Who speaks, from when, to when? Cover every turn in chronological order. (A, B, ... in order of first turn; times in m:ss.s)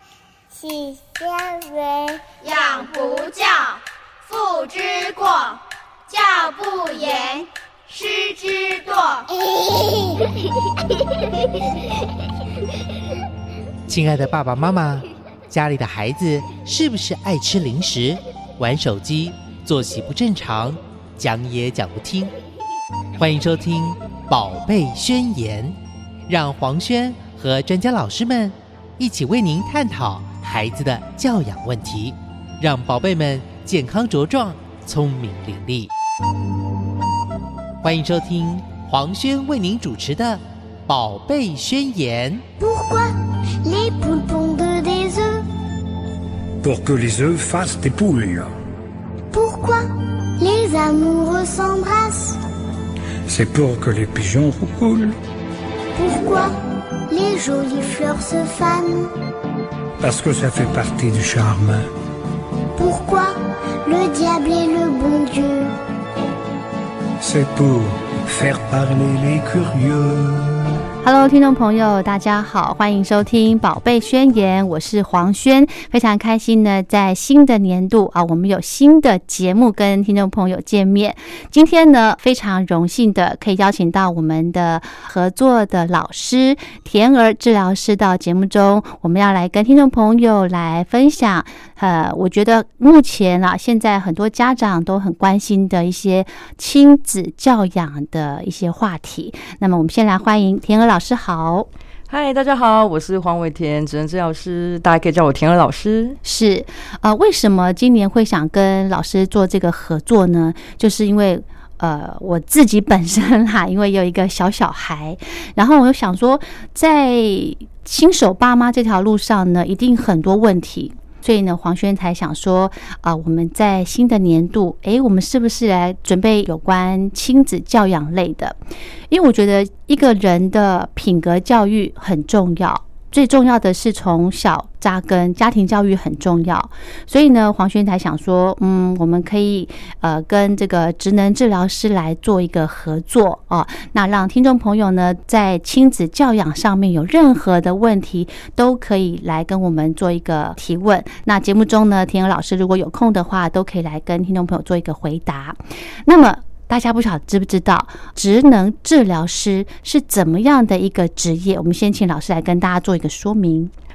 0:00.5-0:02.2 A
0:02.4-0:09.2 B
0:09.5-0:10.1 A
0:13.9-0:22.3 C
0:23.2-0:25.8 C
0:26.3-0:35.9 C
0:37.8-0:42.4 C
0:42.6-0:45.5 A
0:46.6-0:48.5 D
0:49.3-0:52.4 A
0:53.3-0:55.2 D
0:55.9-0:56.6 A
0:57.1-0:59.1 A
1:00.0-1:01.9 D
1:02.7-1:05.8 A
1:07.2-1:10.8 D
1:11.0-1:41.7 E
1:42.1-1:46.2 F
1:46.2-2:08.6 E
2:09.1-2:43.7 E